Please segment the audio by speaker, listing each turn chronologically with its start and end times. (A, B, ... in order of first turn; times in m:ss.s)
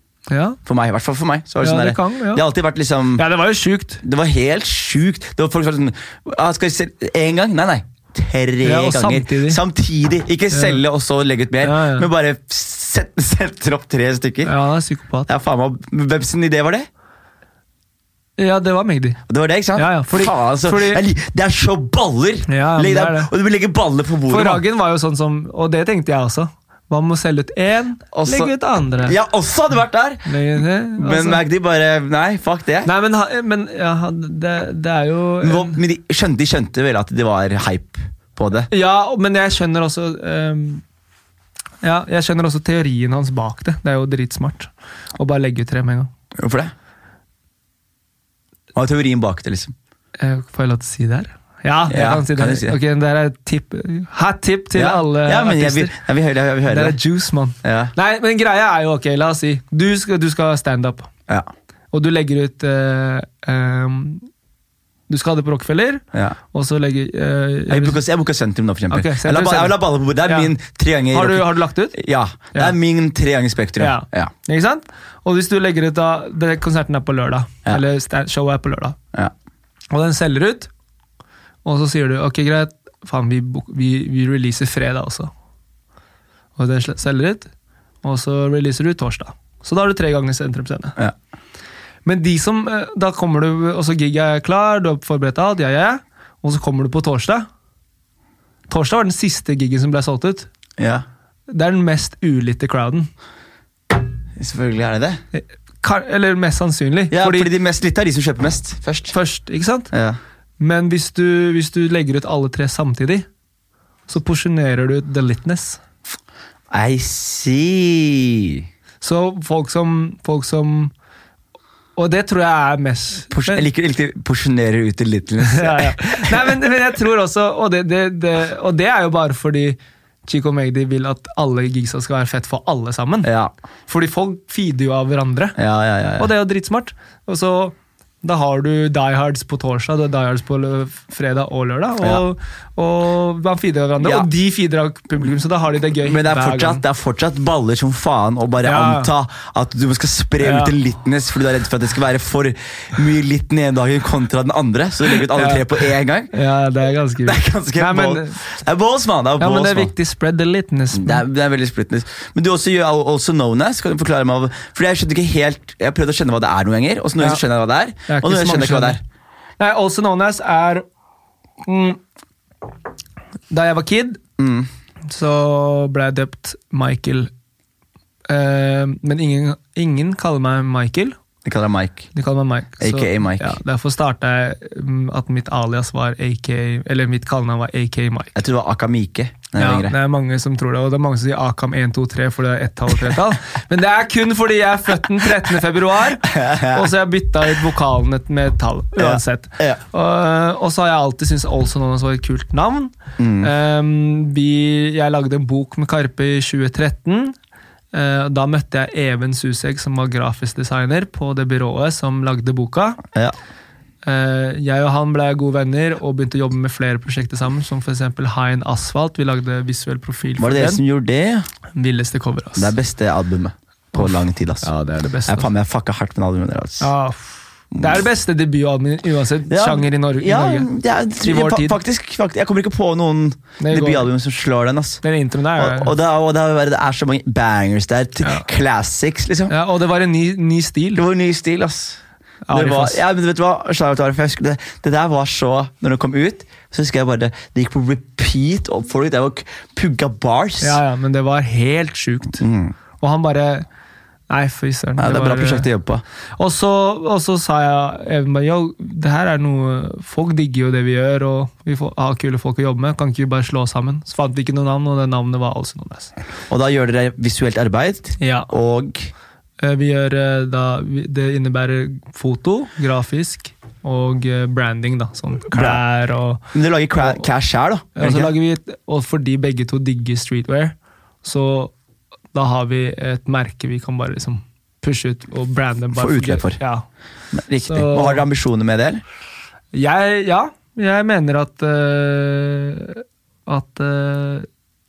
0:00.3-0:00.6 A
0:00.7-0:03.2 B
0:01.6-0:02.4 A
0:03.2-0:04.0 A
0:04.0-0:14.5 B
0:08.6-0:09.6 A
0:10.5-0:10.8 A
0:11.6-0:12.1 A
0:14.4-0:15.3 A
0:15.3-0:16.9 B
0:18.4-0:19.2 A
0:19.3-0:24.6 B
0:19.8-0:21.0 A
0:22.5-0:23.3 A
0:24.3-0:29.2 A
0:28.1-0:30.3 B
0:30.3-0:31.4 A
0:31.0-0:32.9 B
0:32.8-0:35.8 A
0:35.4-0:38.7 B
0:38.7-0:40.8 A
0:41.8-0:46.1 A
0:46.4-0:46.7 B
0:48.8-0:49.8 B
0:50.2-0:56.0 A
0:51.9-0:52.8 B
0:54.8-0:57.0 B
0:56.7-1:01.1 A
0:57.6-0:57.9 B
1:01.9-1:04.3 A
1:05.1-1:08.0 A
1:07.7-1:14.3 B
1:08.9-1:10.5 A
1:11.1-1:12.0 A
1:13.8-1:19.0 A
1:19.9-1:20.7 A
1:21.6-1:25.3 A
1:26.6-1:27.5 A
1:28.0-1:31.0 A
1:32.0-1:37.5 A
1:38.7-1:40.5 A
1:40.8-1:41.0 B
1:41.5-1:43.1 A
1:44.4-1:45.2 B
1:45.3-1:47.5 A
1:47.1-1:49.2 B
1:49.1-1:49.9 A
1:49.9-1:50.2 B
1:50.6-1:53.3 A
1:54.1-1:55.8 A
1:56.7-1:58.6 B
1:59.0-2:00.9 A
2:02.0-2:03.7 A
2:03.3-2:06.5 B
2:05.4-2:13.3 A
2:13.2-2:13.5 B
2:13.9-2:15.6 A
2:15.6-2:16.3 B
2:16.2-2:26.8 A
2:24.0-2:24.3 B
2:26.0-2:36.3 B
2:28.6-2:29.1 A
2:30.4-2:30.8 A
2:35.3-2:38.4 A
2:37.2-2:39.9 B
2:39.4-2:41.2 A
2:40.9-2:49.0 B
2:48.1-2:49.0 A
2:49.6-2:50.8 A
2:51.6-2:52.0 A
2:53.5-2:54.2 A
2:54.4-2:54.7 B
2:55.1-2:57.3 A
2:58.3-3:01.2 A
3:01.4-3:02.1 B
3:02.1-3:08.3 A
3:02.8-3:03.6 B
3:08.4-3:10.0 B
3:09.6-3:27.4 A
3:16.3-3:16.9 B
3:19.0-3:19.8 B
3:23.2-3:23.5 B
3:27.9-3:33.0 A
3:34.0-3:40.8 A
3:40.4-3:41.5 B
3:41.8-3:42.8 A
3:42.6-3:44.7 B
3:43.9-3:45.5 A
3:45.3-3:46.9 B
3:46.8-3:50.7 A
3:47.7-3:48.0 B
3:49.5-3:55.0 B
3:51.2-3:51.8 A
3:53.6-3:54.1 A
3:55.0-3:55.9 A
3:55.6-3:59.5 B
3:58.2-3:58.5 A
3:59.5-4:01.0 A
4:01.0-4:02.0 B
4:02.5-4:03.0 A
4:02.5-4:10.8 B
4:10.6-4:12.4 A
4:12.4-4:12.8 B
4:13.0-4:13.7 A
4:14.3-4:15.7 A
4:15.0-4:16.0 B
4:16.4-4:26.1 A
4:26.5-4:29.1 B
4:28.2-4:28.5 A
4:29.6-4:36.5 A
4:35.5-4:35.8 B
4:36.5-4:38.3 B
4:38.0-4:41.7 A
4:42.3-4:46.8 A
4:46.0-4:46.6 B
4:47.3-4:49.0 B
4:47.7-4:48.2 A
4:49.7-4:54.5 A